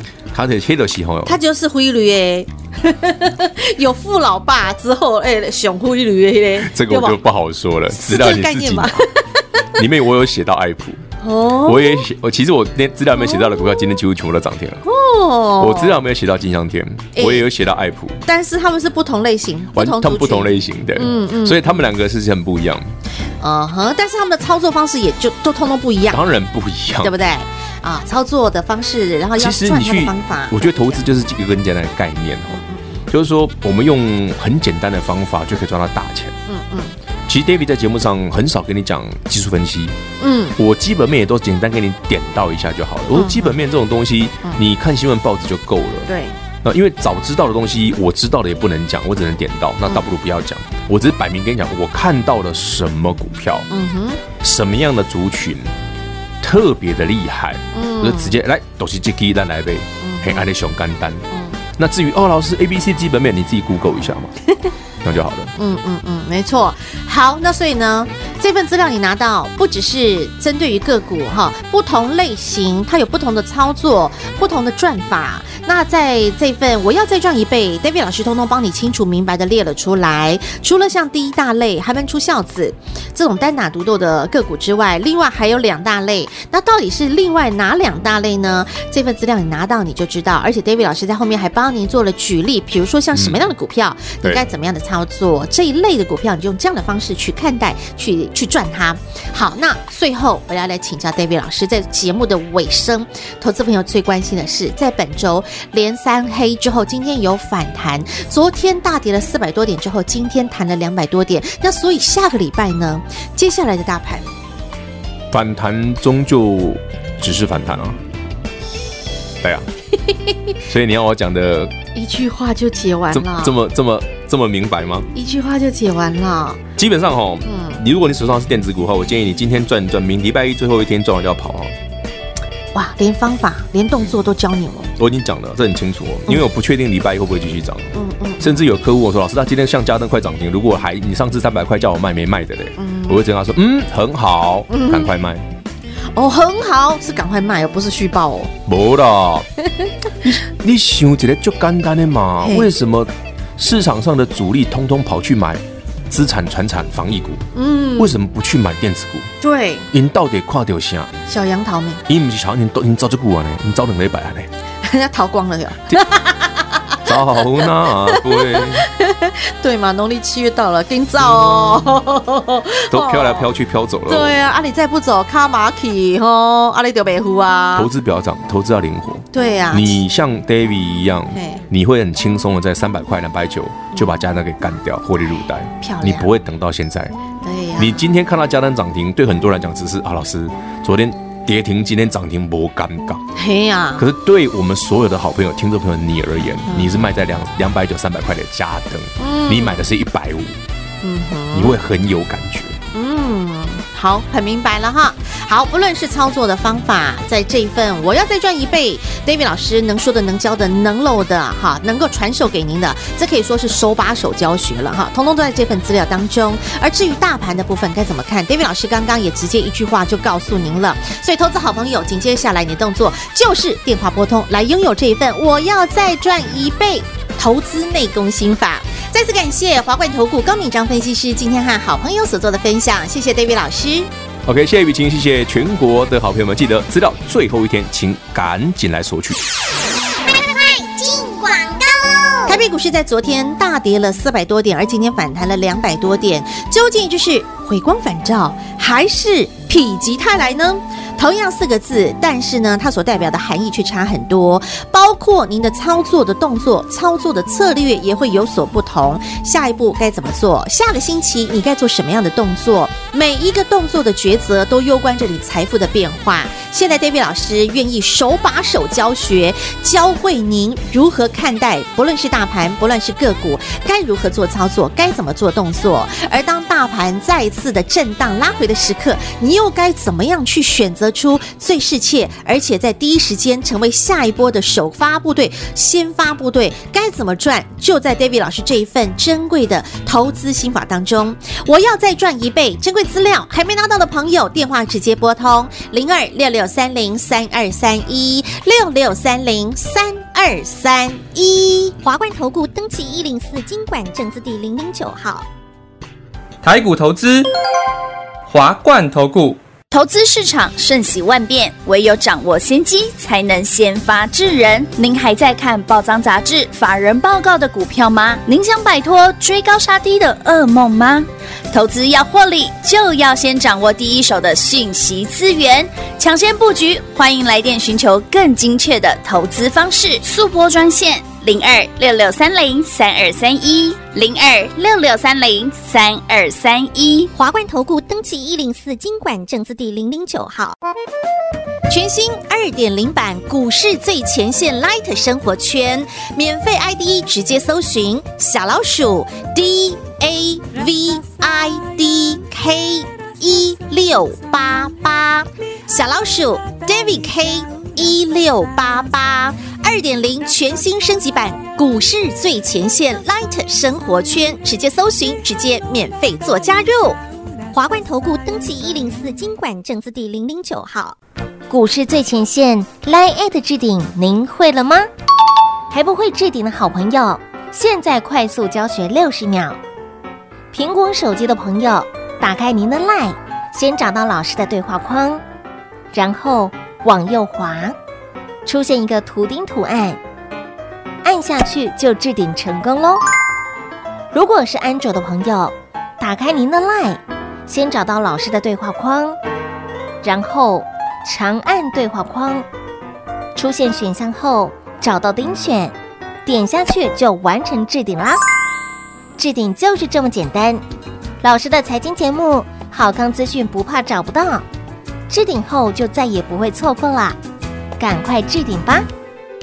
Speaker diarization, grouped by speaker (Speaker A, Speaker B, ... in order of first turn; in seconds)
Speaker A: 0.3-1.4, 6.6-9.0, 9.8-11.0, 11.7-14.8, 15.6-18.2, 19.8-22.9, 26.1-27.1, 29.4-36.4, 37.3-40.0, 40.6-46.1, 46.6-53.7, 54.4-55.7, 56.4-61.2, 61.8-64.3, 65.0-65.5, 93.1-93.4, 115.3-118.0, 120.7-121.7, 123.1-125.1, 126.8-131.7, 135.0-145.4, 148.7-149.5, 150.2-157.5, 158.0-159.3, 159.9-161.1, 162.1-164.5, 167.1-168.9, 171.2-171.9, 172.9-174.4, 177.7-187.2, 187.8-193.2, 194.0-200.6, 201.5-202.8, 234.5-239.5
Speaker B: 1.3-7.2, 7.9-9.8, 11.2-12.1, 13.2-14.0, 14.8-16.0, 17.2-17.5, 18.2-21.9, 23.4-26.2, 27.0-31.0, 32.5-33.0, 36.5-37.0, 40.2-40.6, 43.1-43.6, 46.1-46.4, 53.7-54.2, 57.7-58.4, 60.0-60.5, 61.3-61.6, 65.6-114.3, 122.0-123.6, 125.1-126.6, 127.5-127.8, 132.7-134.9, 137.9-138.6, 142.8-143.2, 144.7-145.1, 146.2-148.5, 152.4-152.7, 157.5-158.2, 159.4-159.9, 161.3-162.0, 164.8-173.5, 174.1-177.9, 179.3-180.0, 181.3-181.6, 185.8-186.3, 187.4-188.1, 193.4-194.1, 196.7-197.1, 199.2-199.8, 201.0-201.8, 202.9-234.1, 242.5-301.9, 341.9-367.2
Speaker C: 240.3-242.6
Speaker D: 302.0-305.5, 337.4-340.8, 367.7-371.2
Speaker E: 306.6-307.5, 308.5-309.6
Speaker F: 309.9-337.3
Speaker G: 371.7-375.1, 375.9-379.8, 380.7-385.4, 386.1-388.0, 388.7-390.2, 391.2-393.2, 394.3-399.4, 400.2-402.7, 403.6-405.9, 406.5-408.4, 409.4-410.8, 411.4-414.7, 415.3-417.4, 418.0-419.1